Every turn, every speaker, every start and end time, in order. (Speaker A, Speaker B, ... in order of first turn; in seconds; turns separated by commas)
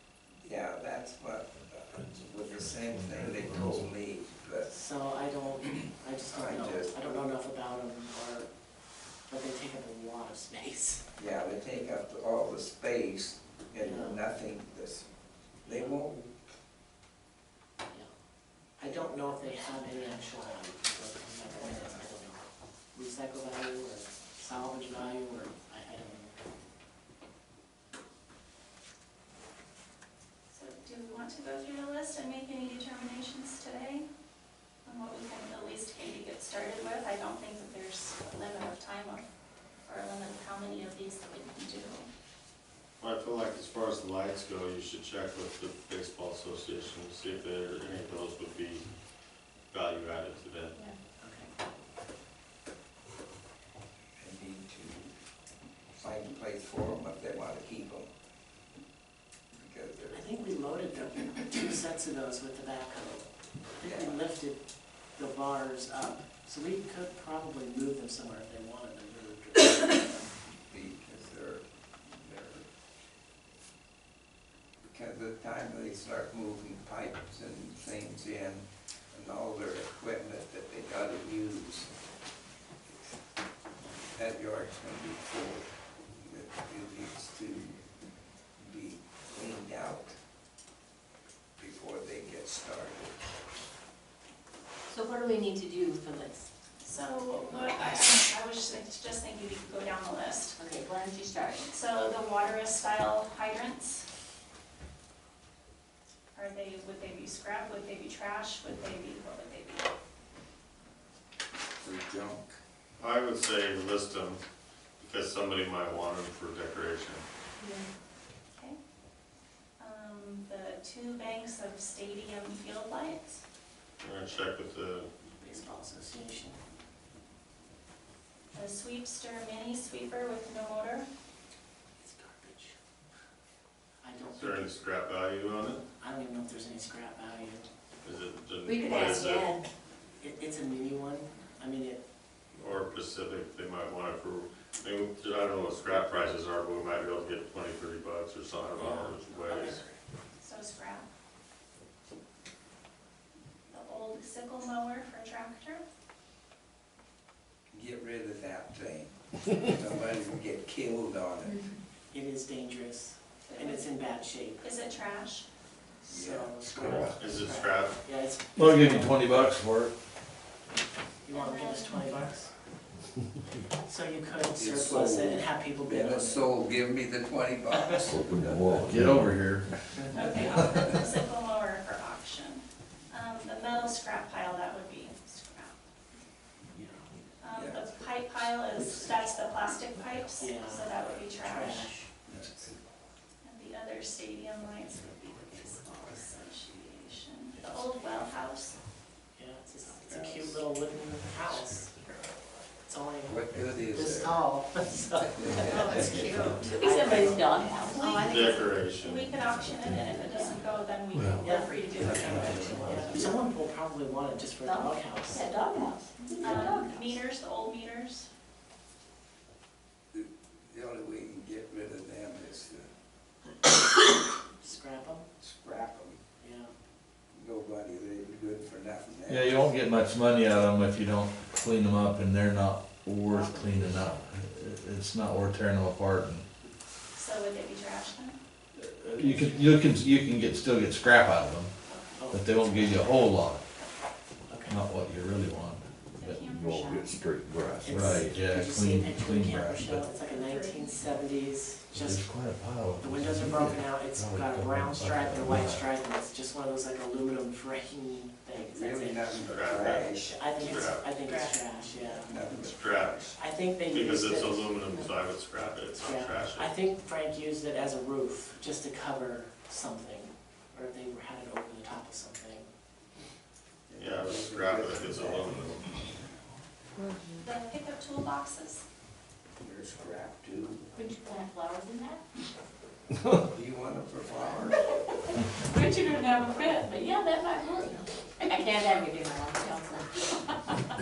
Speaker A: 0.4-4.7, Speaker B: 2.5-3.9, Speaker C: 4.7-8.5, Speaker A: 6.3-7.2, Speaker C: 9.3-11.1, Speaker A: 11.2-15.1, Speaker C: 13.8-14.2, Speaker A: 15.6-16.3, Speaker C: 15.7-16.1, Speaker C: 18.8-26.4, Speaker A: 18.8-19.9, Speaker D: 30.5-34.1, Speaker D: 34.9-39.3, Speaker D: 39.9-42.1, Speaker E: 43.0-48.9, Speaker E: 49.7-50.8, Speaker C: 51.2-51.5, Speaker A: 54.2-55.1, Speaker A: 55.9-58.1, Speaker A: 59.5-60.3, Speaker C: 60.1-64.6, Speaker A: 63.8-64.2, Speaker C: 65.2-70.0, Speaker A: 70.7-72.7, Speaker A: 74.9-81.9, Speaker A: 82.9-83.1, Speaker A: 84.1-87.8, Speaker A: 88.6-90.2, Speaker A: 91.6-93.2, Speaker F: 94.9-96.5, Speaker D: 96.8-100.6, Speaker F: 100.6-101.7, Speaker D: 101.7-104.1, Speaker D: 106.3-109.9, Speaker A: 111.8-112.6, Speaker E: 113.0-114.4, Speaker E: 115.0-117.2, Speaker D: 119.8-123.4, Speaker E: 124.0-125.1, Speaker C: 125.3-126.6, Speaker D: 128.5-131.1, Speaker C: 132.0-132.8, Speaker C: 134.0-134.7, Speaker E: 134.3-135.8, Speaker C: 135.6-137.7, Speaker E: 138.0-139.6, Speaker F: 138.7-139.7, Speaker C: 140.2-142.0, Speaker E: 142.6-149.8, Speaker C: 148.8-149.9, Speaker D: 150.4-151.1, Speaker D: 153.7-155.8, Speaker A: 157.7-161.7, Speaker C: 162.1-164.7, Speaker D: 163.4-163.9, Speaker D: 164.6-165.5, Speaker C: 166.0-169.4, Speaker A: 166.1-167.2, Speaker E: 166.8-168.0, Speaker B: 168.6-169.9, Speaker C: 171.2-172.5, Speaker D: 171.3-172.3, Speaker C: 173.8-176.5, Speaker A: 174.6-178.8, Speaker C: 177.8-178.1, Speaker G: 178.1-179.4, Speaker B: 178.8-179.7, Speaker D: 180.1-185.8, Speaker C: 186.7-187.1, Speaker D: 187.4-191.9, Speaker A: 187.5-188.0, Speaker C: 190.4-192.1, Speaker A: 192.3-192.8, Speaker D: 193.4-198.8, Speaker C: 199.3-202.0, Speaker A: 200.1-200.7, Speaker C: 202.8-208.0, Speaker A: 203.2-204.4, Speaker A: 205.1-206.7, Speaker F: 205.8-208.7, Speaker D: 205.8-208.4, Speaker E: 208.2-209.3, Speaker D: 209.0-213.4, Speaker F: 210.2-210.6, Speaker B: 211.1-211.4, Speaker C: 211.4-215.5, Speaker B: 212.0-213.0, Speaker F: 214.6-217.2, Speaker D: 216.4-218.3, Speaker A: 220.1-222.9, Speaker C: 224.6-225.3, Speaker A: 225.4-226.2, Speaker C: 226.4-226.7, Speaker A: 227.3-229.7, Speaker B: 229.3-236.5, Speaker C: 233.3-234.1, Speaker D: 237.2-238.4, Speaker B: 238.8-241.7, Speaker C: 239.2-239.8, Speaker D: 241.8-242.3, Speaker C: 242.2-243.0, Speaker B: 242.3-243.6, Speaker C: 244.5-244.8, Speaker B: 244.7-246.4, Speaker D: 246.2-247.1, Speaker G: 246.5-248.1, Speaker C: 247.8-252.2, Speaker B: 247.9-250.1, Speaker A: 249.4-249.9, Speaker D: 250.3-250.8, Speaker B: 251.9-255.9, Speaker C: 253.0-259.5, Speaker A: 258.5-260.4, Speaker E: 259.4-261.3, Speaker C: 260.0-262.4, Speaker F: 260.6-261.7, Speaker A: 262.0-263.4, Speaker E: 262.6-263.4, Speaker C: 263.4-264.8, Speaker E: 263.9-266.8, Speaker C: 265.9-272.7, Speaker A: 273.9-276.6, Speaker E: 273.9-275.9, Speaker D: 277.4-278.8, Speaker A: 279.6-280.9, Speaker F: 281.0-282.2, Speaker A: 283.5-284.9, Speaker F: 286.3-290.6